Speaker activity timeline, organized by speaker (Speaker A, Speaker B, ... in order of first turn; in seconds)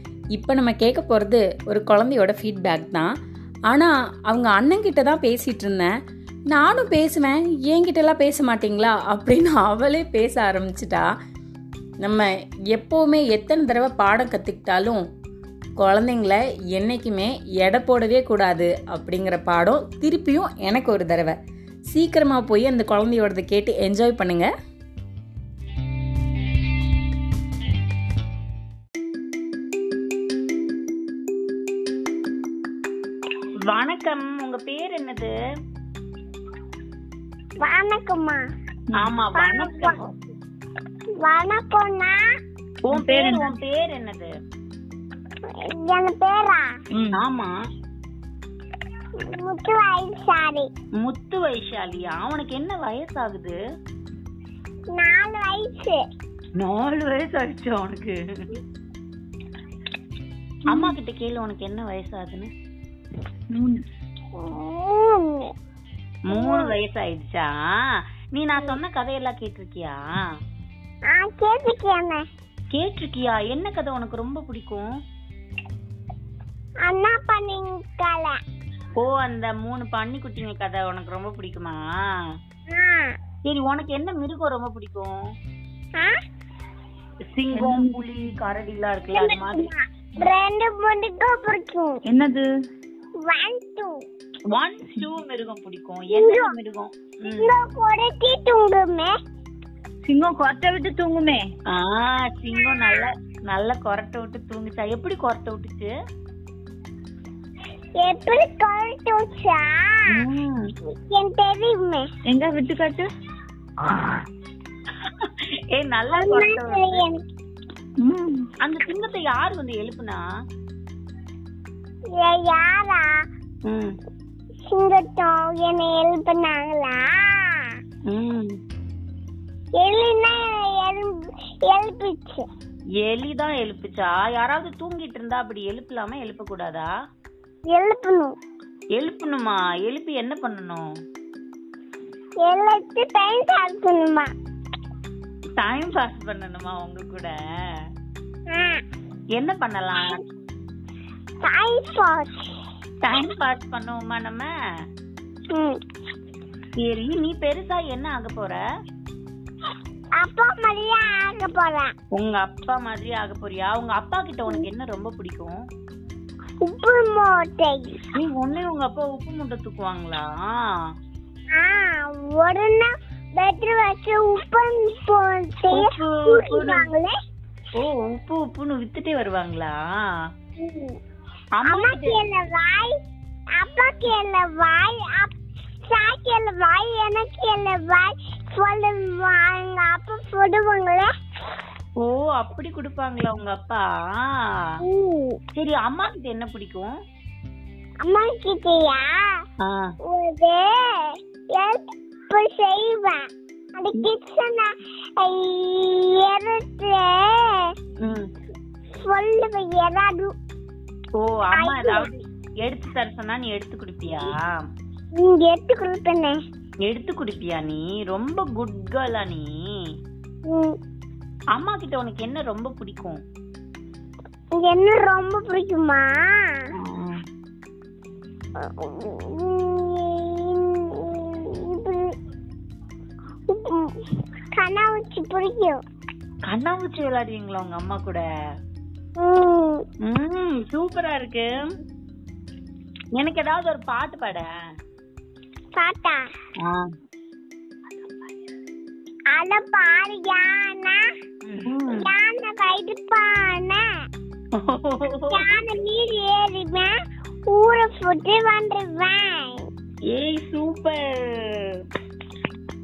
Speaker A: 0.3-3.1, 3.7-5.9, 6.5-11.1, 12.0-15.1, 15.8-21.4, 21.9-24.5
Speaker B: 33.7-35.3, 39.0-40.0, 42.9-44.3, 47.1-47.5, 51.0-53.5, 56.6-58.1, 60.7-62.5, 66.3-67.5, 68.3-70.0, 72.7-74.9, 79.0-82.0, 83.4-85.1, 87.3-89.7, 94.5-97.5, 101.7-105.9, 110.1-110.7, 115.0-117.0, 118.6-120.2, 123.7-123.9, 128.1-128.5, 133.0-136.9, 139.0-140.8, 145.6-147.3, 149.4-150.2, 153.0-154.5, 156.8-158.6, 162.1-165.6, 168.1-170.3, 175.7-176.9, 177.8-179.8, 181.6-182.2, 192.0-194.7, 195.5-196.9, 199.6-199.9, 208.0-208.3, 211.2-214.6, 216.8-219.5, 221.5-223.2, 226.8-227.2, 236.5-238.2, 240.0-241.6, 243.2-244.5, 246.6-246.9, 251.5-252.1, 254.6-255.4, 260.1-261.7
Speaker C: 37.6-38.4, 39.3-40.0, 41.2-42.2, 45.6-46.7, 49.2-50.7, 54.9-56.0, 64.4-65.5, 66.3-66.7, 71.1-72.2, 76.8-78.4, 82.7-83.1, 89.1-92.0, 93.2-94.0, 96.1-96.5, 97.3-99.1, 102.6-103.0, 108.0-110.1, 110.9-112.0, 116.1-117.2, 122.2-123.2, 124.7-127.7, 129.8-132.4, 137.7-138.3, 142.4-144.3, 148.5-148.8, 151.4-152.5, 155.5-155.8, 160.2-161.9, 166.6-168.0, 171.6-177.1, 180.6-181.0, 181.7-182.9, 183.6-185.3, 185.9-191.1, 194.8-195.4, 198.0-199.3, 200.0-203.2, 203.8-207.7, 209.0-210.3, 211.5-212.1, 215.2-216.4, 220.5-220.8, 224.6-226.5, 228.6-232.1, 233.5-234.0, 234.6-235.8, 239.2-239.8, 245.8-246.2, 249.3-251.0, 251.9-253.8, 255.3-256.9, 257.5-259.7
Speaker D: 42.9-43.5, 46.9-47.2, 63.5-63.8, 87.5-88.1, 92.1-92.5, 100.0-101.5, 112.3-113.1, 118.0-118.5